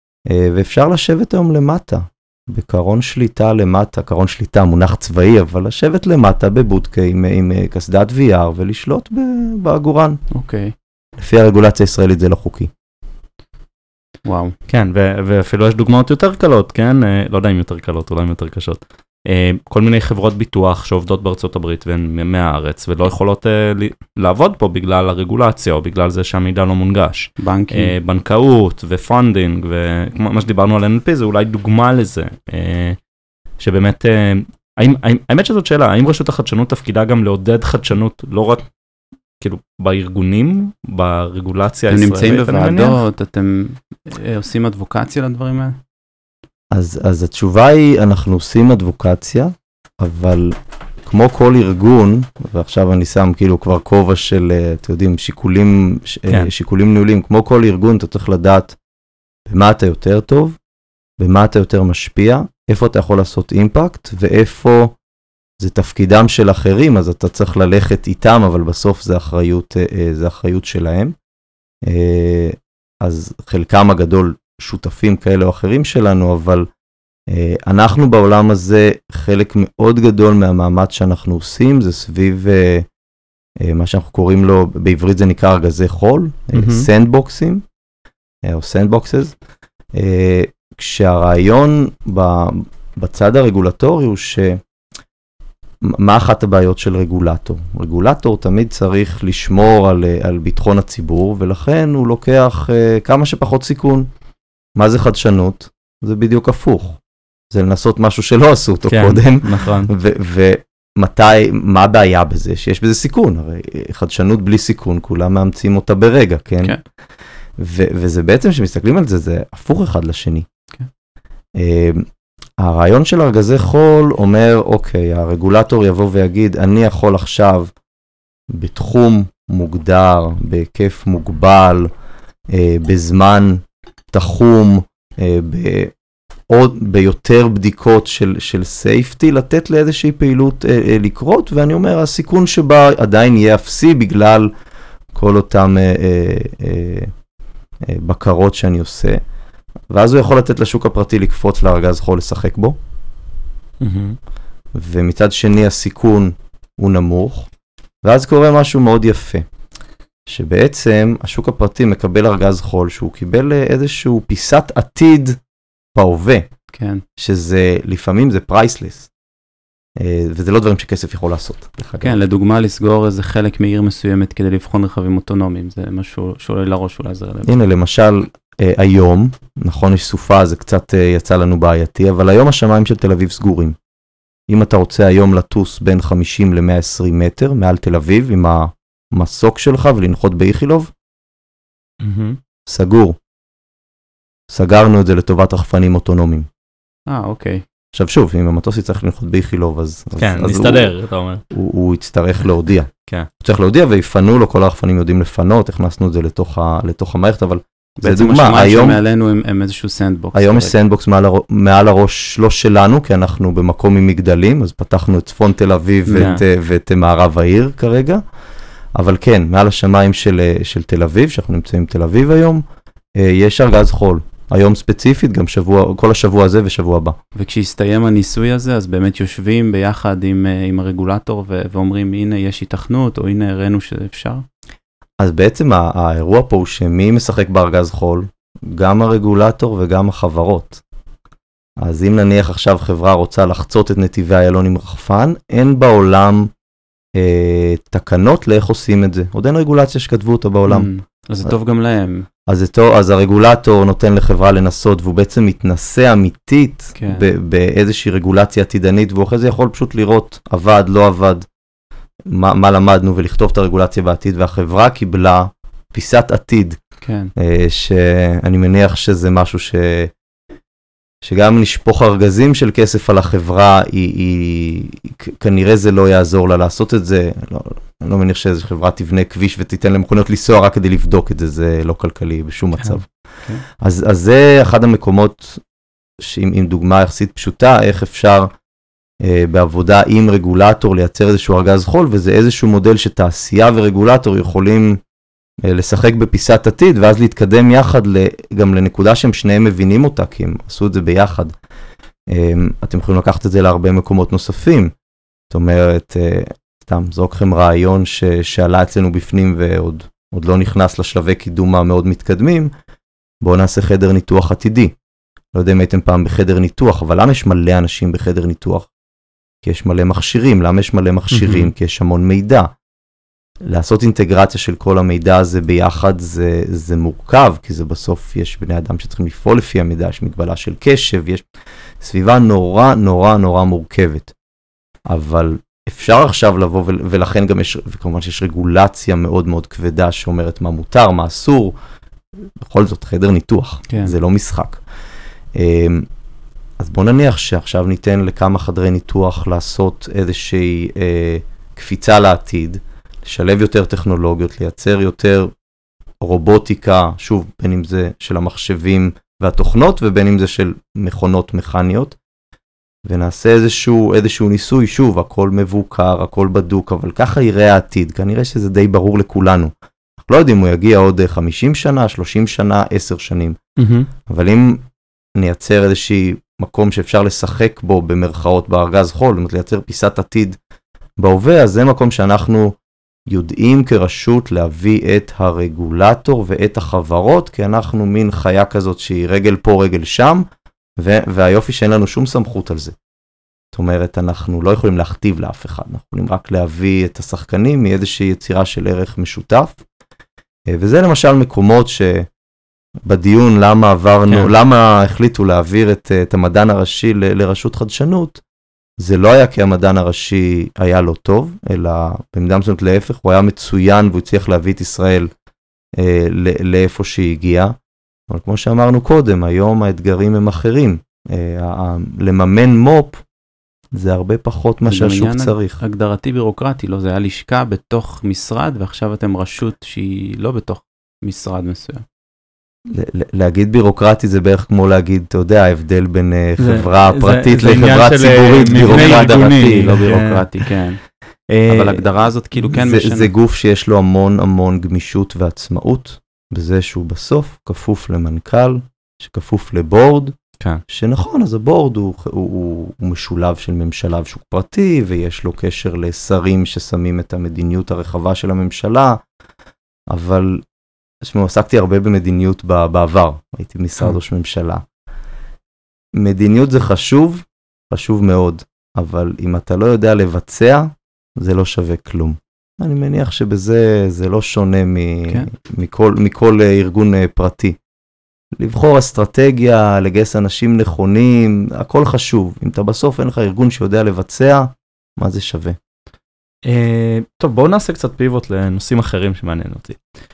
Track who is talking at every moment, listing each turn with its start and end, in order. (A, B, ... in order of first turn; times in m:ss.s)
0:00.3-0:10.2 A
0:10.3-0:10.7 B
0:11.2-0:12.7 A
0:14.2-0:14.5 B
0:14.7-0:33.0 C
0:27.4-0:27.9 B
0:33.6-0:38.6 C
0:39.4-0:43.0 C
0:41.9-0:45.8 B
0:46.7-0:58.8 A
0:59.5-1:00.6 A
1:01.2-1:04.9 A
1:05.6-1:11.1 A
1:11.8-1:16.7 A
1:17.3-1:22.9 A
1:23.6-1:27.6 A
1:26.6-1:26.9 C
1:28.4-1:29.3 A
1:29.9-1:34.6 A
1:35.8-1:44.1 A
1:44.8-1:47.0 A
1:47.5-1:56.8 A
1:48.9-1:49.9 C
1:57.6-2:00.5 A
2:01.6-2:02.0 A
2:02.6-2:07.7 A
2:08.5-2:11.9 A
2:12.5-2:15.9 A
2:16.5-2:24.5 A
2:25.1-2:27.1 A
2:27.8-2:29.2 A
2:29.9-2:32.8 A
2:33.8-2:34.1 C
2:34.7-2:37.5 A
2:38.0-2:39.4 A
2:40.3-2:45.4 A
2:45.9-2:46.5 A
2:46.7-2:47.0 B
2:47.2-2:49.1 A
2:50.0-2:52.2 A
2:52.0-2:57.5 B
2:57.4-3:03.8 A
3:04.5-3:10.9 A
3:12.0-3:12.4 C
3:12.6-3:13.2 A
3:14.5-3:16.5 A
3:17.1-3:17.6 B
3:17.9-3:20.9 A
3:20.2-3:21.4 C
3:21.5-3:29.0 A
3:28.0-3:30.7 B
3:30.3-3:38.2 A
3:36.0-3:36.4 B
3:36.1-3:36.4 C
3:38.9-3:42.6 A
3:43.2-3:47.2 A
3:47.3-3:54.4 B
3:55.2-4:00.8 A
4:01.8-4:06.5 A
4:07.1-4:10.9 A
4:10.7-4:12.2 B
4:12.5-4:21.5 A
4:17.0-4:17.3 B
4:22.3-4:26.8 A
4:27.0-4:27.3 B
4:27.4-4:30.1 A
4:31.2-4:43.1 A
4:43.8-4:45.6 A
4:46.2-4:48.5 A
4:49.2-4:55.0 A
4:55.6-5:01.5 A
5:02.3-5:04.9 A
5:05.5-5:12.7 A
5:13.4-5:14.9 A
5:15.5-5:18.9 A
5:19.6-5:22.7 A
5:21.3-5:21.7 C
5:23.6-5:31.4 A
5:32.0-5:34.3 A
5:35.1-5:41.8 A
5:42.6-5:44.8 A
5:43.9-5:44.1 B
5:45.5-5:46.1 A
5:46.8-5:55.5 A
5:56.2-6:02.2 A
6:03.0-6:13.6 A
6:13.8-6:14.1 C
6:14.3-6:14.8 A
6:15.4-6:20.6 A
6:21.2-6:22.8 A
6:23.3-6:33.0 A
6:33.7-6:39.8 A
6:40.7-6:42.3 A
6:43.0-6:48.4 A
6:49.0-6:55.3 A
6:56.0-6:57.7 A
6:58.3-7:03.2 A
7:03.9-7:05.8 A
7:04.8-7:12.0 B
7:12.9-7:20.1 A
7:16.6-7:20.7 C
7:18.8-7:21.0 B
7:21.5-7:22.0 C
7:21.6-7:23.3 B
7:22.6-7:30.4 A
7:30.9-7:39.2 A
7:40.1-7:40.6 A
7:41.2-7:44.8 A
7:46.2-7:57.8 A
7:58.6-8:05.8 A
8:06.6-8:10.0 C